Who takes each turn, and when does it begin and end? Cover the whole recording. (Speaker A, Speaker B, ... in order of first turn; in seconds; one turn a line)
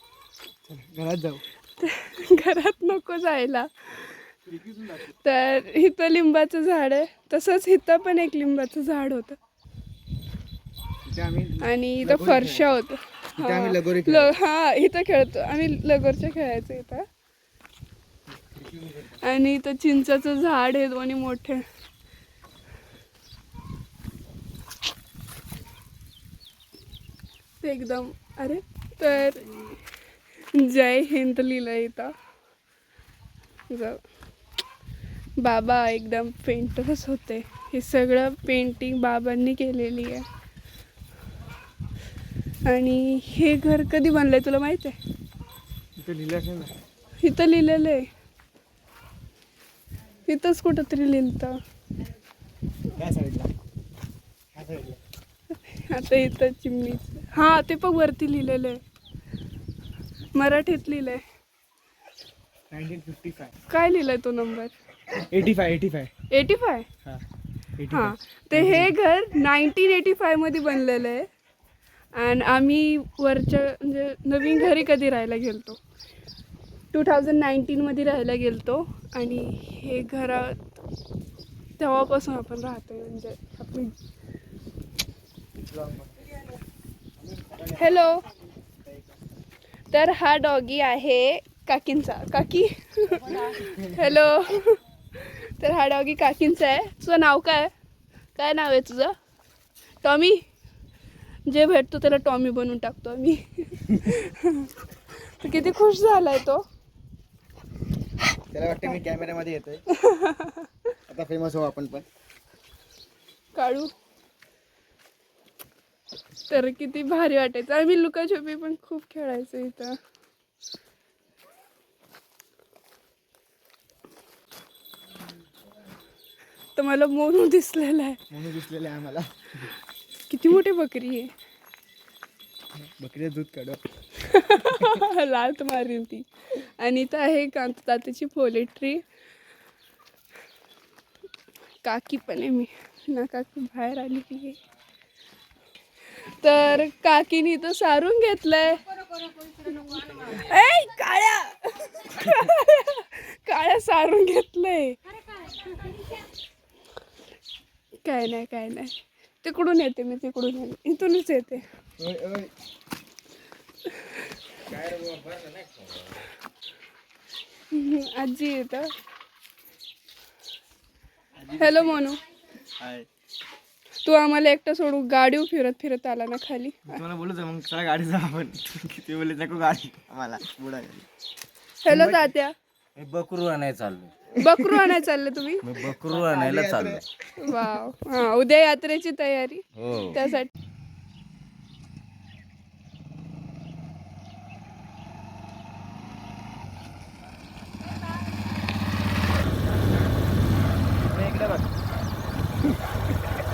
Speaker A: 0.7-1.4
Speaker B: 1.8-4.3
Speaker A: 4.5-5.1
Speaker B: 5.0-9.4
Speaker A: 11.0-12.8
Speaker B: 11.6-17.0
Speaker A: 13.3-14.3
Speaker A: 18.3-19.2
Speaker B: 19.2-21.6
Speaker B: 27.6-29.8
Speaker B: 30.5-32.1
Speaker B: 33.7-34.0
Speaker B: 35.4-40.2
Speaker B: 42.6-45.0
Speaker A: 46.0-46.7
Speaker B: 47.2-48.1
Speaker B: 50.2-51.6
Speaker A: 52.9-53.5
Speaker A: 54.5-55.0
Speaker B: 55.6-58.8
Speaker B: 60.3-61.2
Speaker A: 62.7-63.5
Speaker B: 63.7-64.7
Speaker A: 65.1-66.1
Speaker B: 66.3-66.9
Speaker A: 67.8-69.0
Speaker B: 67.9-71.3
Speaker B: 72.1-75.8
Speaker B: 76.9-80.7
Speaker B: 81.8-83.9
Speaker A: 85.7-86.2
Speaker A: 87.3-87.9
Speaker B: 87.7-88.2
Speaker B: 89.9-97.7
Speaker A: 93.3-94.1
Speaker B: 98.3-99.1
Speaker B: 100.0-100.4
Speaker B: 101.5-106.6
Speaker A: 108.5-109.8
Speaker B: 109.9-110.7
Speaker A: 111.1-112.0
Speaker B: 113.5-113.9
Speaker B: 116.5-120.0
Speaker B: 126.8-128.2
Speaker A: 128.3-129.3
Speaker B: 130.3-131.3
Speaker A: 132.7-133.8
Speaker B: 134.1-139.0
Speaker A: 134.6-135.0
Speaker B: 141.8-144.6
Speaker B: 146.2-148.8
Speaker B: 149.6-155.0
Speaker B: 158.0-161.6
Speaker A: 162.0-162.5
Speaker C: 164.7-166.2
Speaker B: 167.7-168.9
Speaker A: 171.4-172.0
Speaker B: 171.6-172.2
Speaker A: 172.8-173.1
Speaker B: 174.0-177.0
Speaker A: 176.9-181.1
Speaker B: 181.8-182.5
Speaker A: 181.9-182.3
Speaker C: 182.9-184.1
Speaker A: 184.3-185.0
Speaker B: 184.3-185.7
Speaker C: 185.6-187.0
Speaker A: 185.8-187.7
Speaker B: 187.4-190.5
Speaker C: 189.8-190.2
Speaker A: 201.1-201.7